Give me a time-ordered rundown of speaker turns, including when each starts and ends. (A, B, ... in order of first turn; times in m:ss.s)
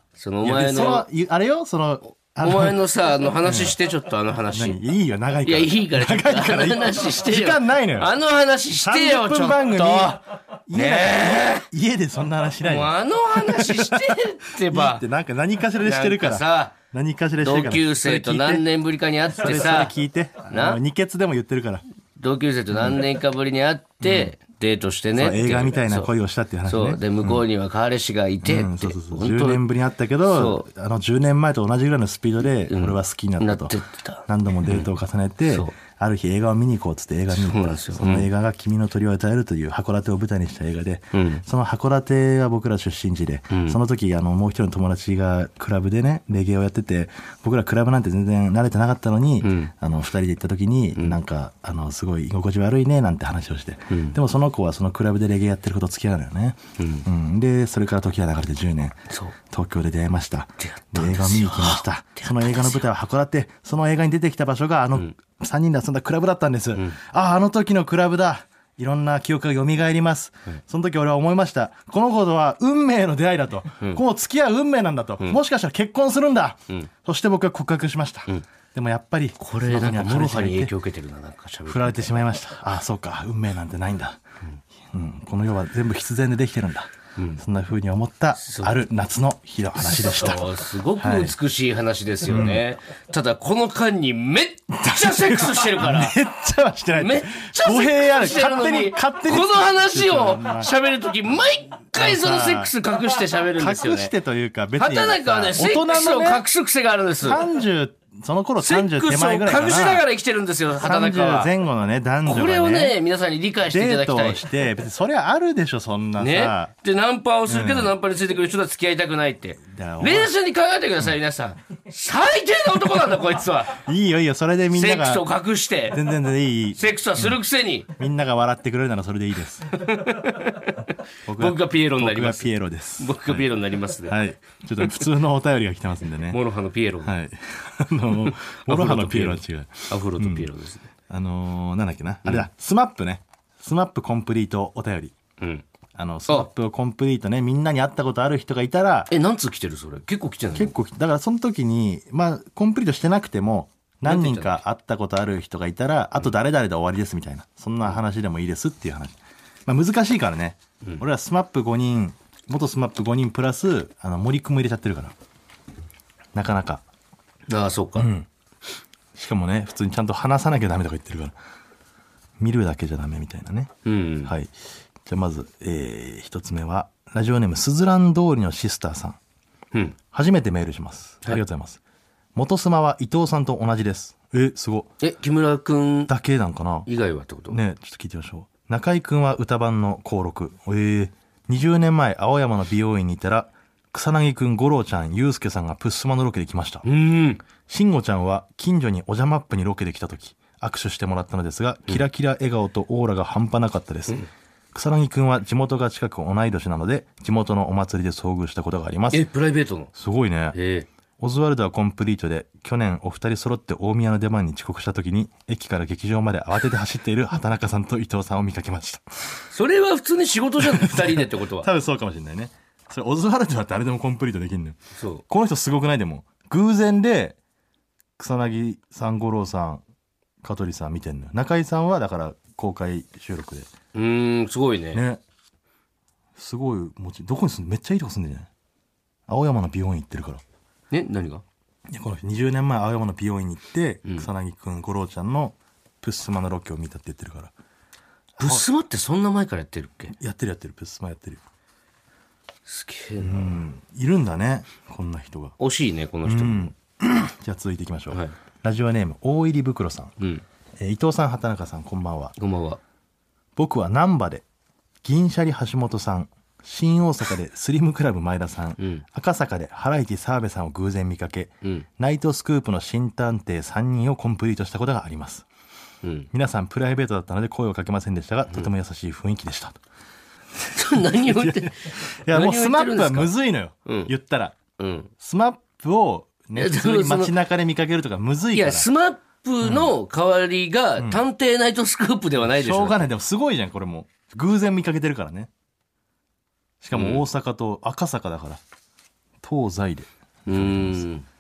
0:00.2-0:01.1 A
0:00.4-0:02.8 B
0:02.4-0:04.8 A
0:03.4-0:03.8 B
0:04.5-0:08.1 B
0:05.4-0:11.7 A
0:08.8-0:18.7 B
0:12.6-0:15.0 A
0:15.8-0:16.8 A
0:17.4-0:19.9 A
0:19.3-0:21.8 B
0:20.5-0:20.8 A
0:22.2-0:26.1 A
0:24.0-0:24.3 B
0:25.2-0:27.4 B
0:26.7-0:29.6 A
0:28.4-0:33.8 B
0:30.3-0:30.7 A
0:32.7-0:34.9 A
0:34.3-1:20.7 B
0:35.5-0:35.7 A
0:37.3-0:38.3 A
0:41.1-0:41.4 A
0:43.5-0:43.8 A
0:49.4-0:49.7 A
0:53.9-0:54.2 A
0:56.8-0:57.1 A
1:00.6-1:02.8 A
1:19.4-1:22.2 A
1:21.7-1:24.2 B
1:24.9-1:31.4 B
1:28.4-1:28.8 A
1:29.8-1:36.2 A
1:32.3-1:32.6 B
1:34.8-1:40.7 B
1:37.0-1:44.1 A
1:41.9-1:42.7 B
1:43.6-1:46.4 B
1:44.8-1:47.4 A
1:47.2-1:50.0 B
1:48.6-1:51.5 A
1:50.8-1:53.0 B
1:52.2-1:54.4 A
1:53.7-1:56.7 B
1:56.2-2:03.8 A
1:57.5-1:57.9 B
1:59.6-2:00.3 B
2:03.8-2:05.3 B
2:04.7-2:06.0 A
2:05.9-2:07.4 B
2:06.8-2:07.9 A
2:07.9-2:09.8 B
2:09.7-2:14.2 A
2:11.3-2:13.5 B
2:14.0-2:16.4 B
2:16.3-2:17.1 A
2:17.0-2:20.5 B
2:18.3-2:20.9 A
2:21.1-2:25.2 B
2:25.4-2:25.6 A
2:26.0-2:29.1 B
2:29.1-2:30.8 A
2:30.6-2:45.2 B
2:34.0-2:34.6 A
2:46.4-2:46.8 B
2:47.5-2:48.1 A
2:48.0-2:48.3 B
2:49.2-2:51.4 B
2:52.4-2:53.7 B
2:53.8-2:54.3 A
2:54.2-2:54.5 B
2:55.0-2:59.2 B
3:00.1-3:01.8 B
3:02.4-3:04.9 B
3:05.0-3:06.1 A
3:06.1-3:06.9 B
3:06.9-3:07.6 A
3:07.5-3:16.8 B
3:16.8-3:17.4 A
3:17.7-3:24.2 B
3:24.7-3:29.2 B
3:29.1-3:29.9 A
3:30.0-3:30.6 B
3:30.5-3:30.9 A
3:31.2-3:39.1 B
3:39.5-3:41.7 A
3:40.6-3:47.4 B
3:45.0-3:45.2 A
3:48.2-3:49.8 B
3:50.4-3:53.7 B
3:53.9-3:55.0 A
3:54.9-3:55.2 B
3:56.4-3:58.5 B
3:59.3-4:00.4 B
4:00.9-4:01.4 A
4:01.9-4:07.5 B
4:08.4-4:08.6 B
4:08.4-4:10.2 A
4:10.2-4:11.4 B
4:12.7-4:13.6 A
4:13.2-4:15.6 B
4:15.6-4:16.7 A
4:16.2-4:20.1 B
4:20.2-4:20.4 A
4:20.8-4:22.4 B
4:22.4-4:22.8 A
4:23.6-4:24.4 B
4:25.0-4:35.5 B
4:28.8-4:29.0 A
4:36.0-4:36.3 A
4:36.3-4:39.8 B
4:40.7-4:43.3 A
4:41.1-4:44.6 B
4:43.9-4:44.1 A
4:44.8-4:45.1 A
4:45.2-4:48.9 B
4:46.6-4:47.3 A
4:48.5-4:53.1 A
4:49.6-4:49.9 B
4:52.5-4:55.5 B
4:56.8-4:58.6 B
4:56.9-4:57.2 A
4:59.4-5:01.1 B
5:00.5-5:01.3 A